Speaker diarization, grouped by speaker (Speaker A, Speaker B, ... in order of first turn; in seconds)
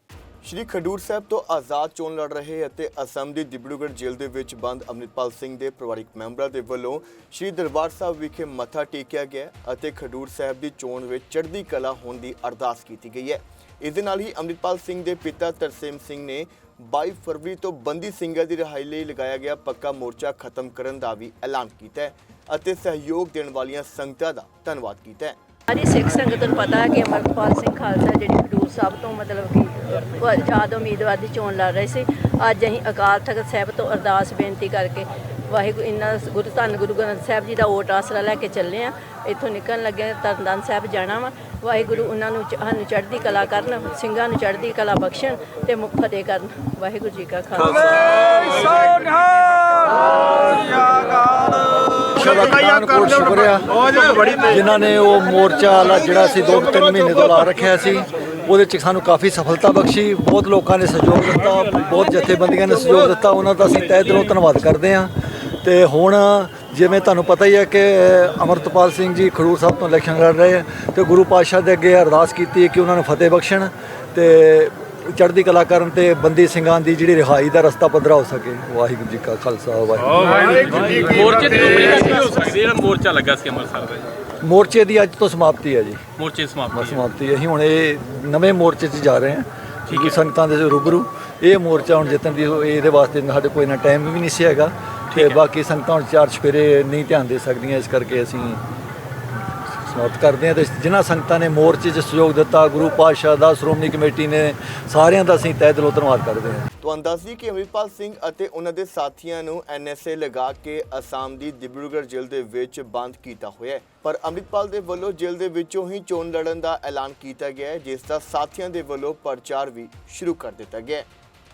Speaker A: 0.4-25.4, 106.8-121.1
Speaker B: 25.7-49.6
Speaker C: 52.0-65.1, 65.6-80.7, 84.4-86.1, 86.7-98.6, 99.8-106.7
Speaker D: 80.5-84.1, 86.2-87.0, 89.9-90.1, 95.1-95.4